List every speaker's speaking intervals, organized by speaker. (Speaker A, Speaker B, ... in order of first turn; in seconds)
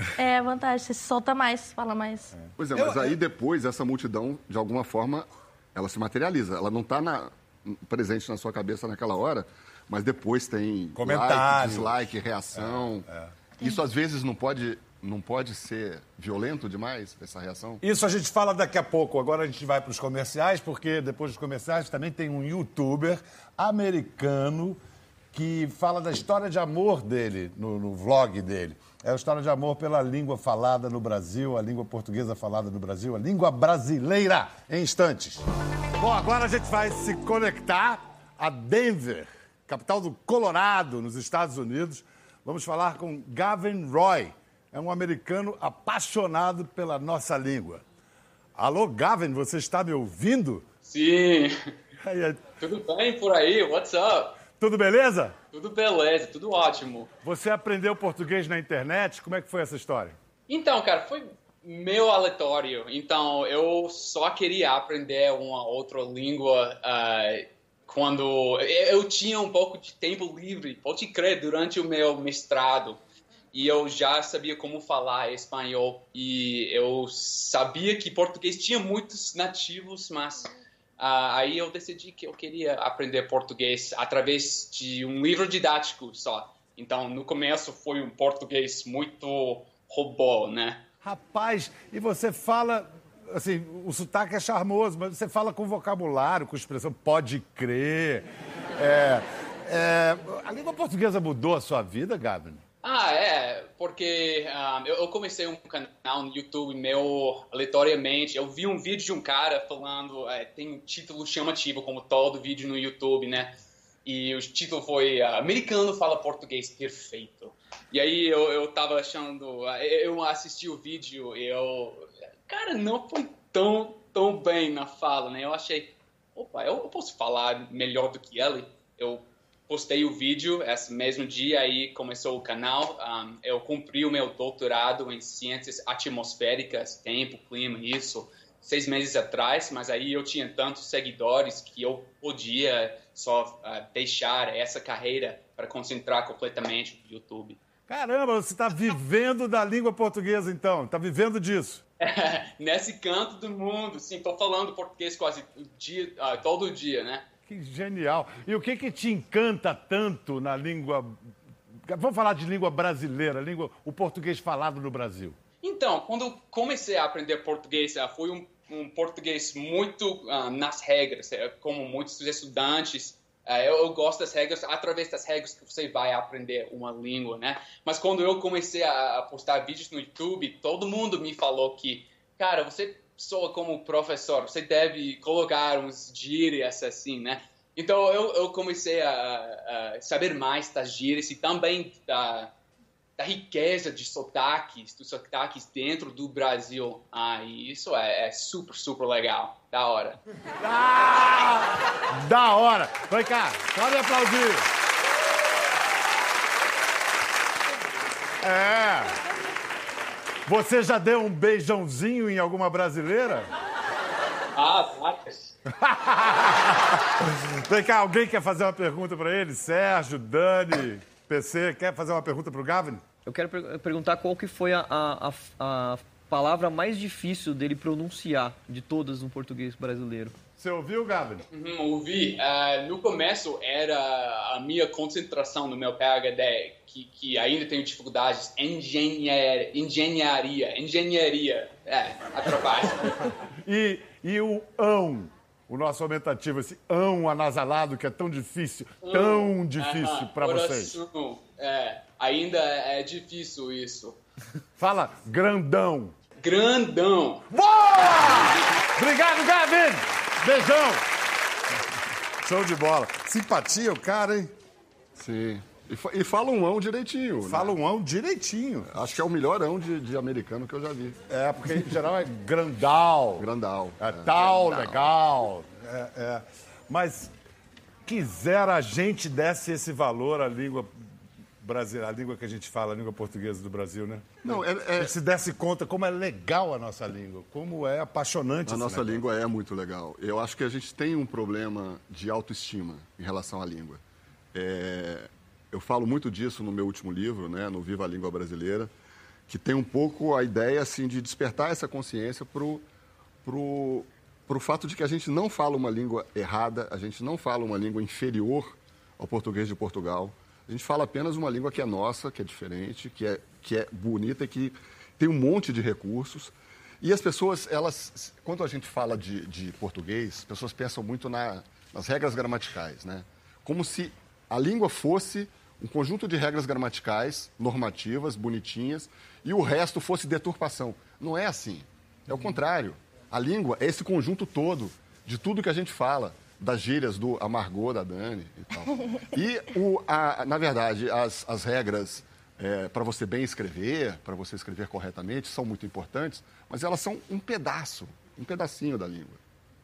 Speaker A: 0.2-2.4
Speaker B: 2.5-13.1, 13.6-17.8, 265.1-267.7, 268.9-271.2, 273.4-275.1, 284.4-285.1, 288.6-294.0, 294.5-298.9, 299.5-302.9, 303.4-349.4
Speaker C: 2.7-3.2, 223.2-230.4
Speaker D: 10.9-13.3, 17.8-24.8, 25.3-35.4, 36.0-47.8, 48.5-50.6, 52.0-52.4, 54.5-55.4, 57.2-60.2, 91.0-102.6, 147.9-151.8, 157.4-161.3, 161.8-165.4, 200.6-204.7, 208.4-209.2, 210.4-213.5, 215.7-223.0, 230.6-231.4, 243.5-250.9, 254.8-256.1, 257.5-261.1, 262.4-264.5, 267.4-269.0, 271.3-277.3, 278.1-280.9, 281.6-289.2
Speaker E: 50.9-51.7, 52.6-54.4, 55.5-57.1, 60.5-73.0, 73.5-90.8, 102.8-147.6, 152.0-157.2, 165.6-192.5, 193.2-200.2, 214.5-215.5, 231.5-243.3, 249.0-254.2, 256.4-257.5